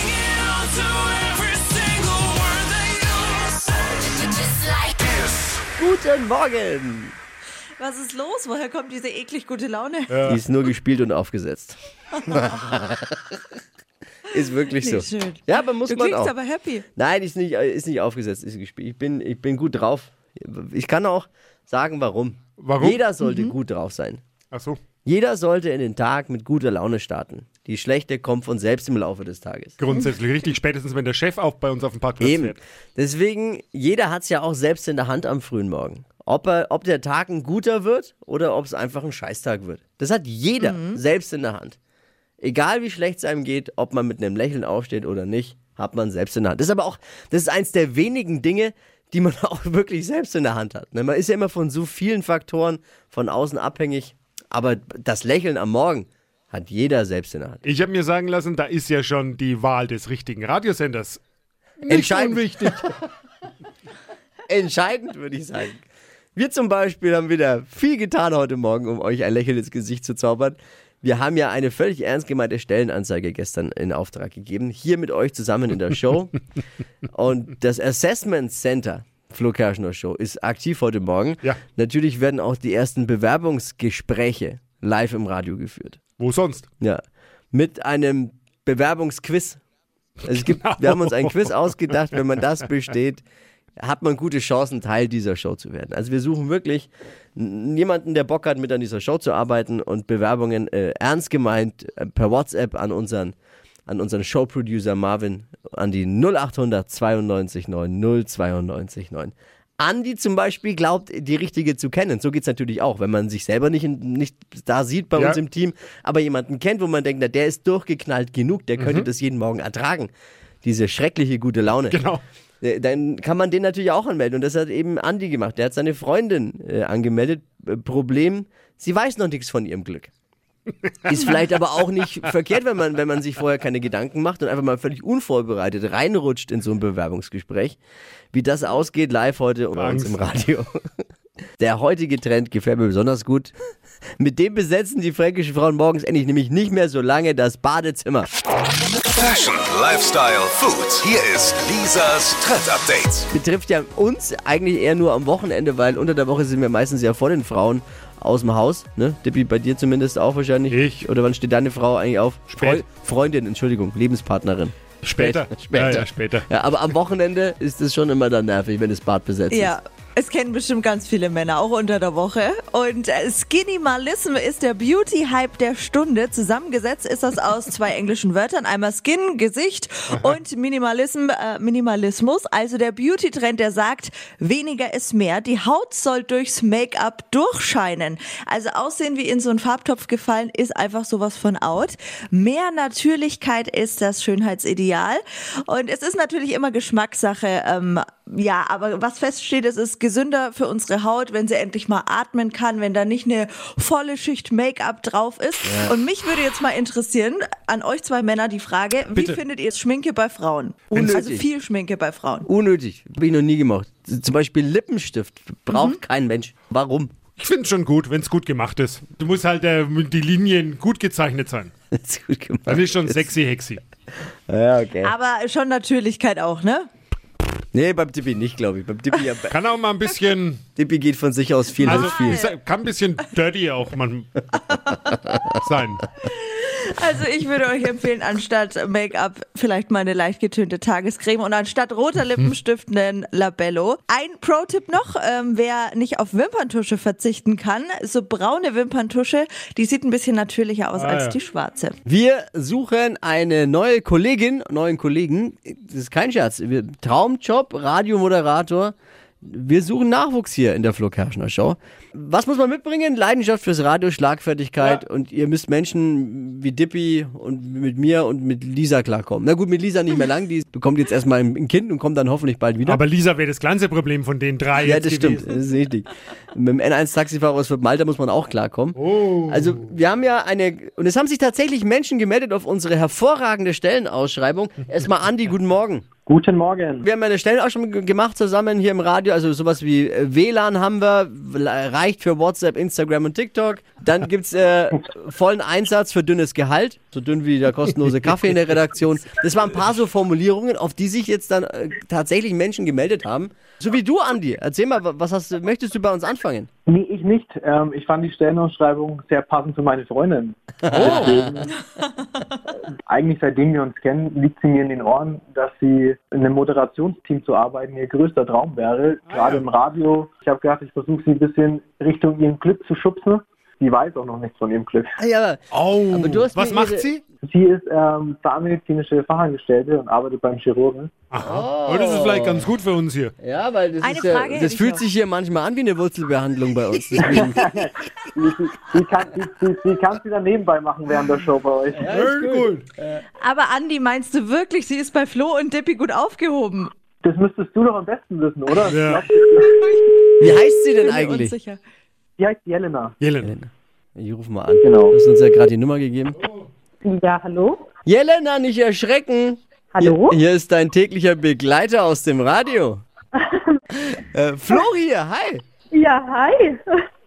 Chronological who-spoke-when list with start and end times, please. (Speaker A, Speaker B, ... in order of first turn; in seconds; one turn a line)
Speaker A: 0.9-2.3
Speaker B: 5.8-7.2
Speaker C: 7.8-10.1
Speaker A: 10.1-10.4
Speaker B: 10.2-11.8
Speaker B: 12.3-13.3
Speaker B: 14.3-16.3
Speaker C: 14.3-16.9
Speaker B: 16.9-24.2
Speaker A: 22.6-23.0
Speaker C: 23.2-23.5
Speaker A: 24.5-24.8
Speaker B: 25.0-29.8
Speaker A: 29.8-32.6
Speaker B: 32.2-41.8
Speaker C: 40.6-41.0
Speaker B: 42.4-57.6
Speaker A: 57.6-61.2
Speaker A: 61.8-62.9
Speaker B: 61.9-62.8
Speaker B: 64.5-76.4
Speaker B: 77.1-86.0
Speaker A: 86.2-86.7
Speaker B: 87.5-89.6
Speaker A: 90.2-92.0
Speaker B: 90.2-93.2
Speaker B: 93.8-103.3
Speaker B: 103.9-120.1
Speaker A: 118.8-119.1
Speaker B: 120.6-122.0
Speaker A: 121.9-122.2
Speaker B: 122.6-130.1
Speaker B: 131.0-137.8
Speaker B: 138.3-140.8
Speaker A: 139.7-140.2
Speaker B: 141.6-143.5
Speaker B: 144.2-148.3
Speaker D: 149.1-153.3
Speaker B: 153.3-169.7
Speaker A: 160.7-161.1
Speaker A: 162.5-162.8
Speaker A: 165.0-166.5
Speaker C: 169.5-212.5
Speaker B: 205.6-206.0
Speaker B: 210.9-211.4
Speaker A: 210.9-211.2
Speaker B: 212.4-217.1
Speaker C: 215.7-216.0
Speaker A: 217.4-221.7
Speaker B: 221.9-223.2
Speaker A: 222.7-223.8
Speaker B: 224.5-225.1
Speaker C: 225.0-226.9
Speaker B: 227.7-229.5
Speaker A: 229.5-230.6
Speaker B: 230.8-232.3
Speaker A: 231.8-234.4
Speaker C: 231.8-232.5
Speaker C: 234.7-235.2
Speaker A: 235.6-236.0
Speaker C: 236.2-252.0
Speaker A: 250.9-251.3
Speaker B: 252.0-273.0
Speaker A: 272.8-275.5
Speaker B: 274.8-286.1
Speaker A: 278.9-279.9
Speaker E: 286.2-287.1
Speaker B: 287.0-306.7
Speaker E: 306.9-311.7
Speaker B: 310.9-311.6
Speaker A: 310.9-311.4
Speaker E: 313.1-325.1
Speaker A: 319.3-319.6
Speaker B: 325.2-327.1
Speaker A: 325.7-327.2
Speaker E: 327.4-331.1
Speaker A: 331.3-333.3
Speaker B: 331.4-332.7
Speaker B: 333.4-337.8
Speaker C: 334.0-335.0
Speaker E: 337.2-342.2
Speaker B: 341.9-343.2
Speaker A: 342.1-342.8
Speaker C: 343.4-346.9
Speaker E: 347.2-349.8
Speaker A: 348.8-349.2
Speaker C: 349.8-351.8
Speaker B: 350.4-351.5
Speaker E: 352.4-353.1
Speaker A: 353.2-353.5
Speaker B: 353.4-356.4
Speaker E: 354.8-355.1
Speaker F: 357.0-357.8
Speaker B: 358.1-363.0
Speaker F: 359.9-360.4
Speaker F: 363.4-363.8
Speaker B: 364.1-365.6
Speaker F: 365.9-366.8